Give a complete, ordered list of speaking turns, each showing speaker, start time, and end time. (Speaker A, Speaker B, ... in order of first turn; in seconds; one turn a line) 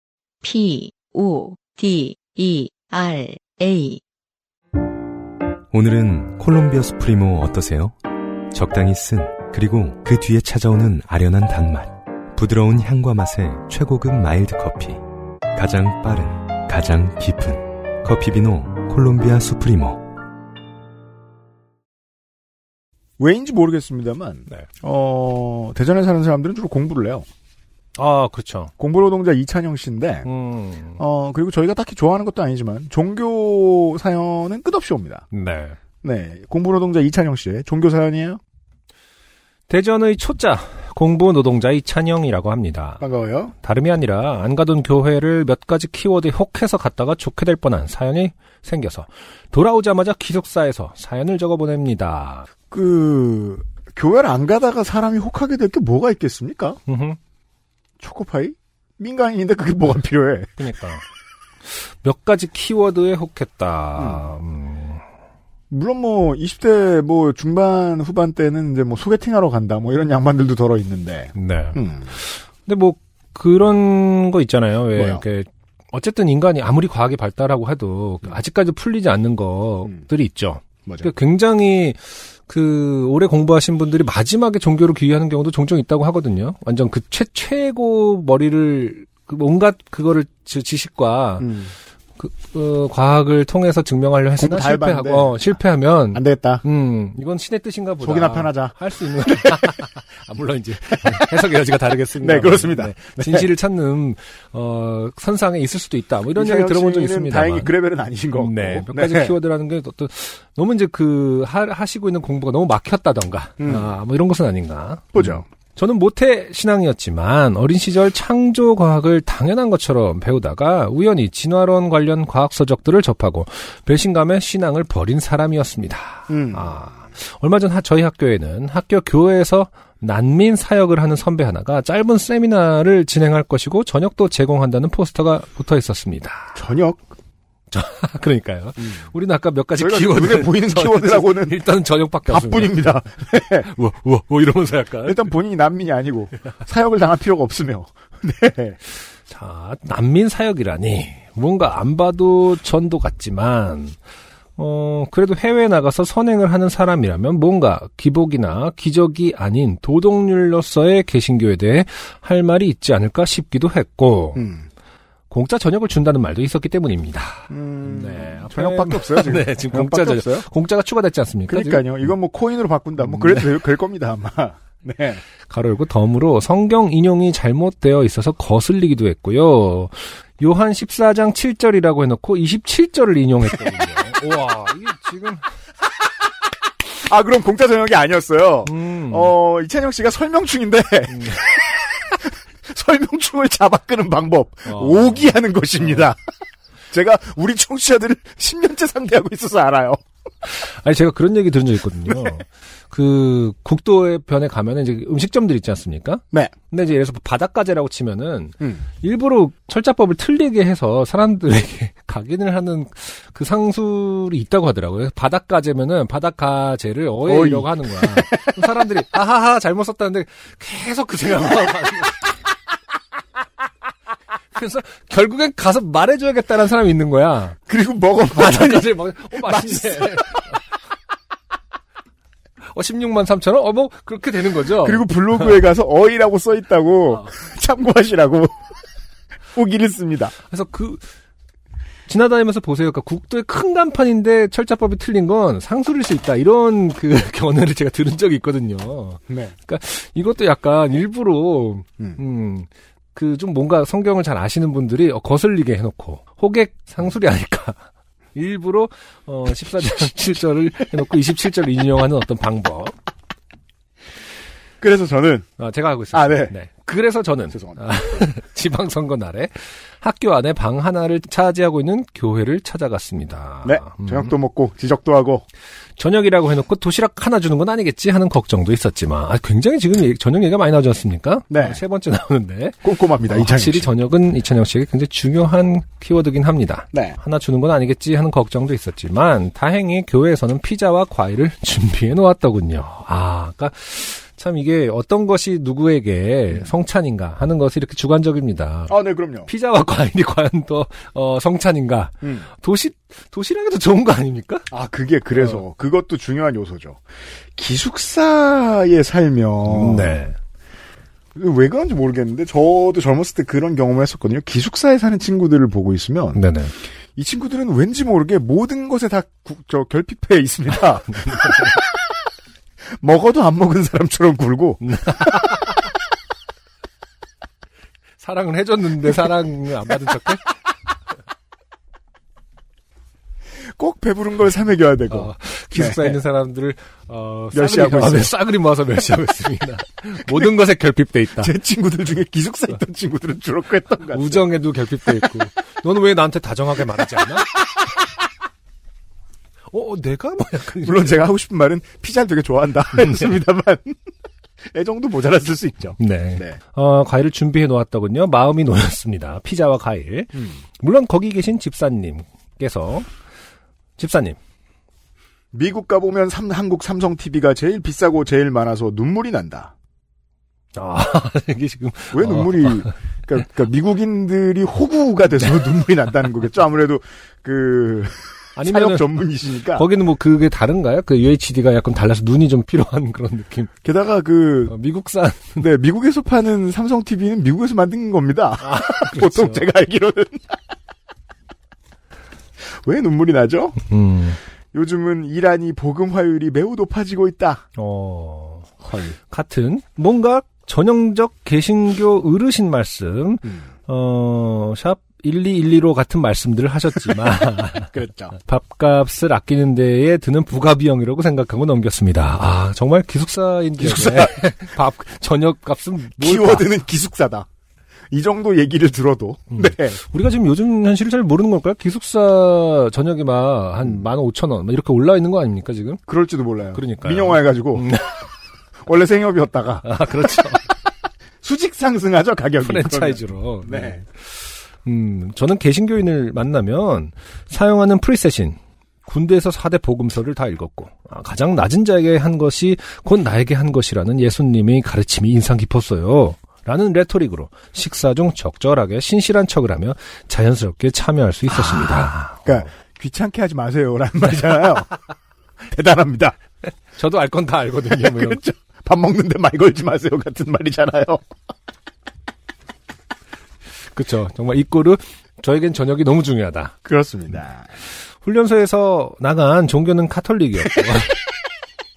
Speaker A: 0.4-4.0
Speaker B: 5.7-8.0
Speaker B: 8.5-15.0
Speaker B: 15.5-20.1
Speaker C: 23.2-27.3
Speaker D: 27.9-28.7
Speaker C: 28.8-30.3
Speaker D: 30.2-31.0
Speaker C: 31.0-35.2
Speaker D: 35.3-35.8
Speaker C: 36.0-38.4
Speaker D: 39.7-43.0
Speaker C: 43.0-43.5
Speaker D: 43.6-52.5
Speaker C: 52.7-56.8
Speaker D: 56.9-57.2
Speaker C: 58.0-60.6
Speaker D: 60.6-61.0
Speaker D: 61.6-65.0
Speaker C: 64.0-64.3
Speaker C: 65.7-72.1
Speaker D: 71.3-91.5
Speaker C: 75.0-75.2
Speaker C: 91.4-91.7
Speaker D: 92.2-107.7
Speaker C: 94.4-95.4
Speaker C: 96.1-96.6
Speaker C: 98.0-99.7
Speaker C: 100.9-101.3
Speaker C: 102.2-103.5
Speaker C: 106.3-109.3
Speaker D: 108.4-136.6
Speaker C: 113.6-113.9
Speaker C: 115.1-115.4
Speaker C: 126.3-126.7
Speaker C: 136.5-137.0
Speaker D: 137.7-145.3
Speaker C: 139.8-141.6
Speaker C: 142.3-143.7
Speaker C: 145.0-148.8
Speaker D: 149.3-154.0
Speaker D: 154.6-164.4
Speaker C: 164.3-164.7
Speaker D: 165.3-172.1
Speaker C: 167.5-170.4
Speaker C: 171.5-175.2
Speaker D: 173.0-173.5
Speaker D: 175.5-185.5
Speaker C: 186.8-196.2
Speaker D: 188.7-189.3
Speaker D: 191.1-191.4
Speaker D: 194.7-195.3
Speaker C: 196.9-200.0
Speaker D: 200.4-222.2
Speaker C: 217.3-218.8
Speaker D: 224.5-227.6
Speaker C: 227.7-230.4
Speaker D: 228.3-230.6
Speaker D: 232.6-235.6
Speaker C: 234.8-238.6
Speaker C: 239.5-240.3
Speaker D: 240.4-241.1
Speaker D: 242.1-257.8
Speaker D: 258.3-262.9
Speaker C: 264.8-265.5
Speaker D: 265.6-274.3
Speaker C: 266.1-266.5
Speaker C: 267.5-267.9
Speaker C: 273.6-275.4
Speaker D: 276.0-304.7
Speaker C: 281.5-281.8
Speaker C: 282.8-283.9
Speaker C: 286.9-287.2
Speaker C: 298.9-299.5
Speaker C: 304.7-307.0
Speaker D: 305.3-305.6
Speaker C: 307.5-310.1
Speaker D: 309.6-310.4
Speaker C: 311.3-316.4
Speaker D: 316.3-316.7
Speaker C: 317.1-321.9
Speaker D: 321.1-321.8
Speaker C: 322.9-325.6
Speaker D: 324.8-325.8
Speaker D: 328.2-330.6
Speaker C: 333.7-336.2
Speaker D: 335.1-341.5
Speaker C: 337.5-338.3
Speaker C: 341.4-344.4
Speaker D: 344.1-347.5
Speaker D: 349.7-351.2
Speaker C: 350.8-354.0
Speaker D: 353.0-353.4
Speaker C: 354.7-356.6
Speaker D: 356.0-363.1
Speaker D: 364.0-364.4
Speaker C: 365.5-369.7
Speaker D: 370.7-372.9
Speaker C: 372.1-379.9
Speaker D: 378.6-383.7
Speaker C: 383.8-384.7
Speaker D: 384.7-385.6
Speaker C: 385.6-390.6
Speaker D: 388.6-389.6
Speaker C: 392.6-393.8
Speaker D: 393.9-394.4
Speaker C: 394.7-397.6
Speaker D: 397.8-398.7
Speaker C: 398.8-399.1
Speaker D: 399.2-416.7
Speaker C: 407.8-408.3
Speaker C: 413.8-414.4
Speaker C: 416.2-417.5
Speaker C: 418.1-420.0
Speaker D: 419.5-426.0
Speaker C: 426.1-427.9
Speaker D: 426.7-428.2
Speaker C: 428.8-429.9
Speaker D: 429.8-430.6
Speaker C: 431.4-434.0
Speaker D: 432.6-452.5
Speaker C: 451.6-454.9
Speaker C: 455.6-456.4
Speaker D: 456.9-458.4
Speaker C: 457.9-461.3
Speaker D: 463.9-466.7
Speaker C: 466.8-467.7
Speaker D: 468.2-471.2